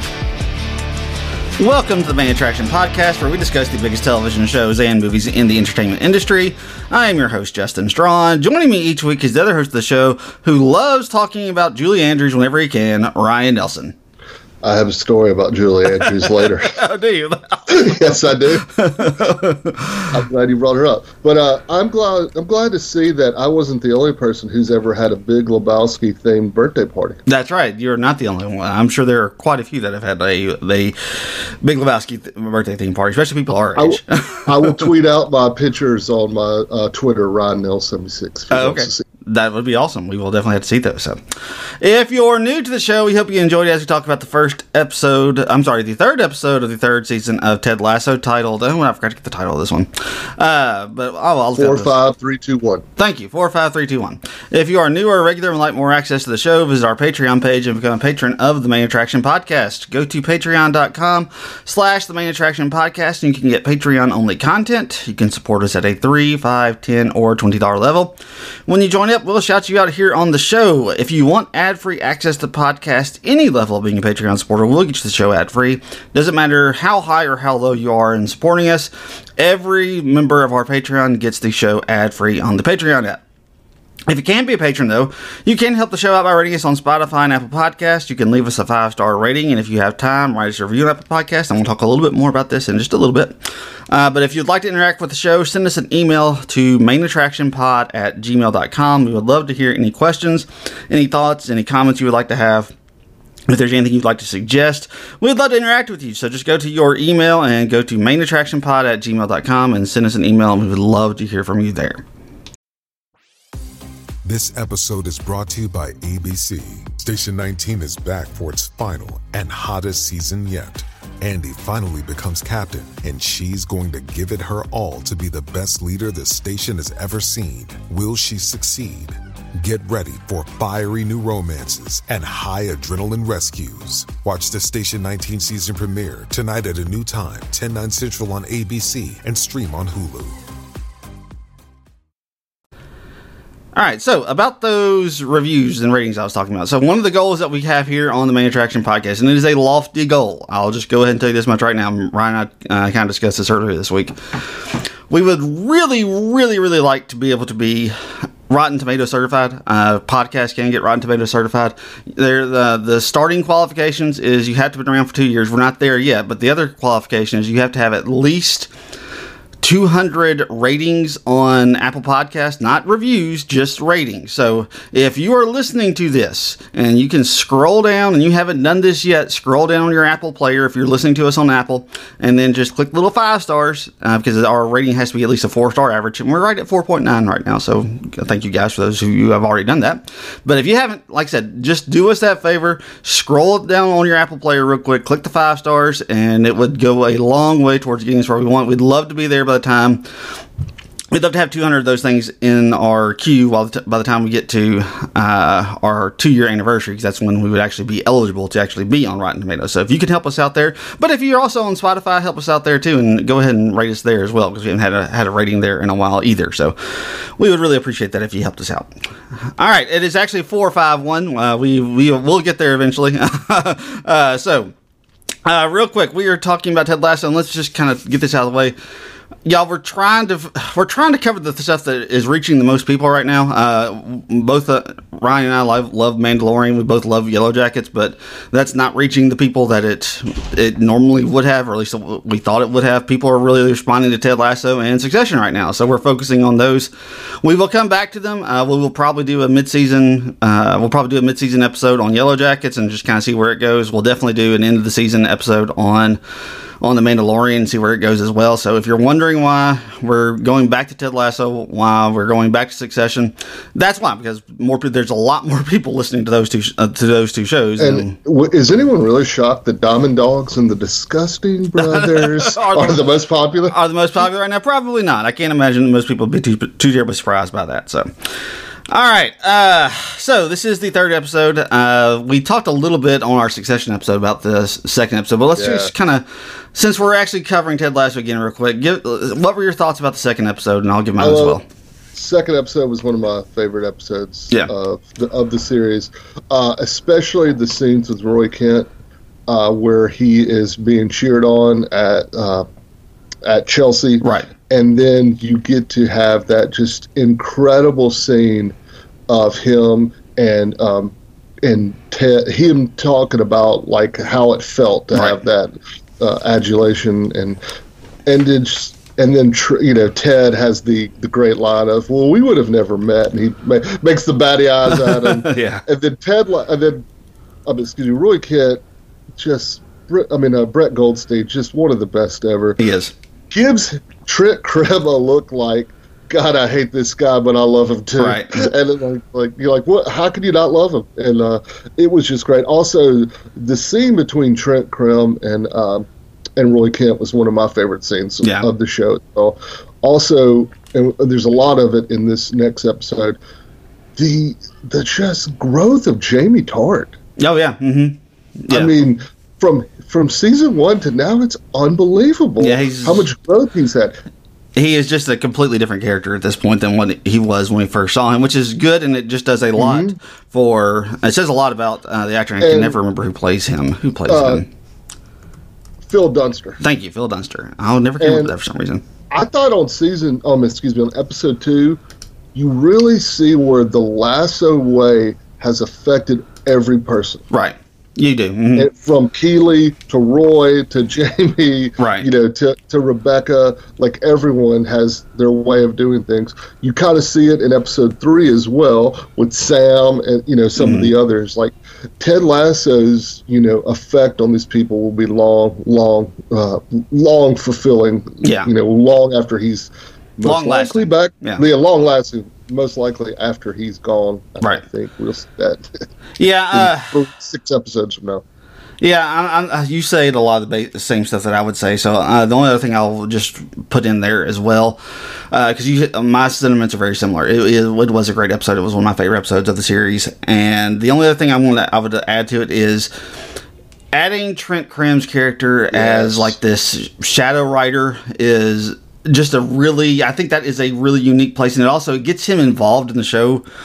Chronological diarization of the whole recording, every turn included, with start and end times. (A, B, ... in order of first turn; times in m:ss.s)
0:01.6-0:13.9 A
0:14.6-0:16.8 B
0:16.0-0:20.2 A
0:17.7-0:18.7 B
0:20.1-0:27.2 B
0:27.3-0:34.9 A
0:33.8-0:39.0 B
0:38.5-0:41.2 A
0:41.8-0:51.9 A
0:51.5-0:52.8 B
0:53.0-1:23.2 A
1:24.1-1:42.7 A
1:43.5-1:52.0 A
1:54.2-2:20.4 C
2:23.7-2:34.2 A
2:35.1-2:38.0 A
2:38.5-2:48.7 A
2:49.6-3:20.0 A
3:21.1-3:39.0 A
3:39.6-3:44.7 A
3:45.4-3:48.8 A
3:49.4-4:16.2 A
4:16.8-4:28.1 A
4:27.8-4:33.7 B
4:31.8-4:33.0 A
4:33.7-4:51.6 A
4:45.6-4:45.9 B
4:51.2-4:51.6 B
4:52.1-4:58.9 B
4:59.5-5:02.6 B
5:03.4-5:08.7 B
5:04.2-5:04.5 A
5:09.3-5:17.6 B
5:15.1-5:15.4 A
5:18.2-5:27.0 B
5:24.9-5:25.8 A
5:27.6-5:28.8 B
5:29.4-5:32.8 B
5:32.8-5:33.1 A
5:33.5-5:53.4 B
5:38.2-5:38.7 A
5:48.4-5:48.7 A
5:54.2-5:57.2 B
5:57.4-5:58.9 A
5:58.7-6:04.2 B
6:02.6-6:03.3 A
6:04.8-6:14.7 A
6:09.8-6:10.2 B
6:12.6-6:13.0 B
6:14.3-6:14.6 B
6:16.0-6:16.8 B
6:16.8-6:19.0 A
6:18.2-6:18.5 B
6:19.3-6:22.0 B
6:22.5-6:27.4 B
6:27.5-6:28.9 A
6:28.8-6:56.0 B
6:32.0-6:32.3 A
6:40.8-6:41.1 A
6:48.4-6:48.7 A
6:50.4-6:51.6 A
6:56.4-6:57.2 A
6:56.7-6:58.4 B
6:59.0-7:05.0 A
7:05.5-7:13.1 A
7:14.1-7:23.6 A
7:15.9-7:16.5 B